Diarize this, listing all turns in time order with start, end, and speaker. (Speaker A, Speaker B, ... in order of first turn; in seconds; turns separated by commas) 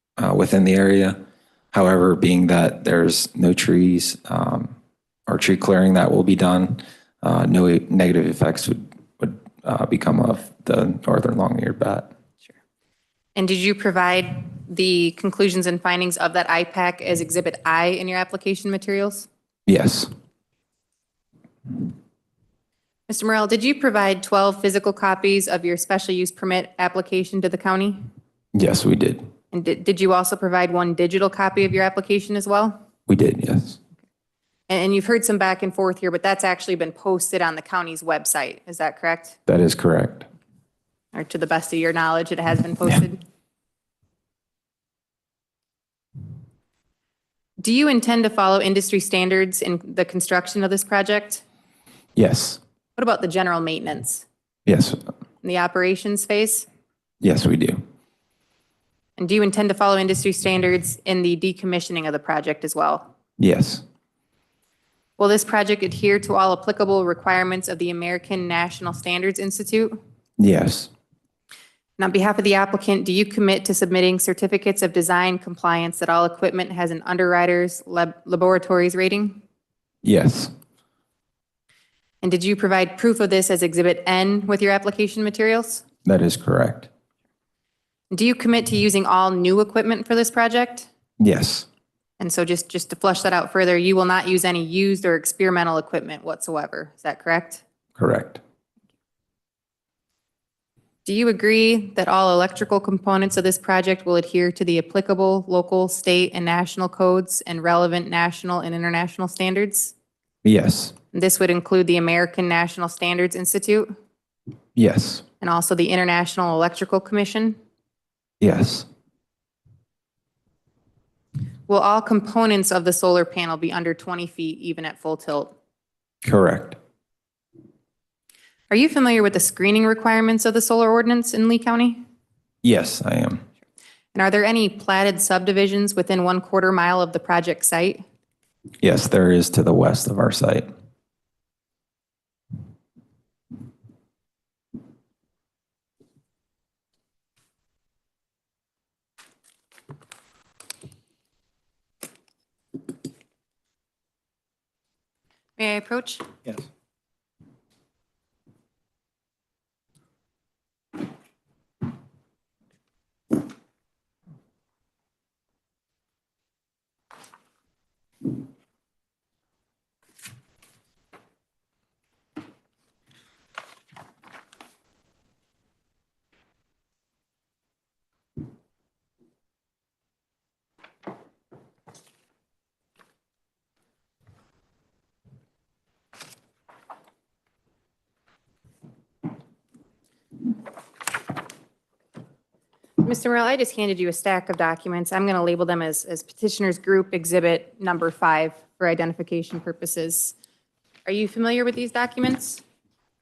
Speaker A: 0.2-1.2, Speaker A: 1.7-4.7, Speaker A: 5.3-12.1, Speaker B: 13.3-19.3, Speaker A: 19.7-20.1, Speaker B: 23.1-28.0, Speaker A: 28.5-29.3, Speaker B: 29.5-32.8, Speaker A: 33.1-33.8, Speaker B: 34.7-39.4, Speaker A: 39.5-40.2, Speaker B: 41.1-43.2, Speaker B: 47.6-51.4, Speaker A: 52.1-52.6, Speaker B: 53.0-54.2, Speaker A: 54.6-55.0, Speaker B: 55.4-56.6, Speaker A: 57.2-57.8, Speaker B: 59.2-63.1, Speaker A: 63.4-63.8, Speaker B: 65.2-70.0, Speaker A: 70.4-70.9, Speaker B: 72.0-79.4, Speaker A: 80.0-80.5, Speaker B: 82.2-85.8, Speaker A: 86.0-86.9, Speaker B: 88.1-90.9, Speaker A: 91.2-91.7, Speaker B: 92.2-97.6, Speaker A: 98.0-98.4, Speaker B: 101.0-109.9, Speaker A: 110.4-110.9, Speaker B: 111.1-113.9, Speaker A: 114.8-115.2, Speaker B: 115.4-117.6, Speaker A: 118.4-118.9, Speaker B: 121.7-125.5, Speaker A: 126.2-126.8, Speaker B: 128.7-132.0, Speaker A: 132.6-133.4, Speaker B: 134.1-138.0, Speaker A: 138.8-140.7, Speaker B: 155.6-156.3, Speaker B: 193.0-200.3, Speaker B: 201.1-202.6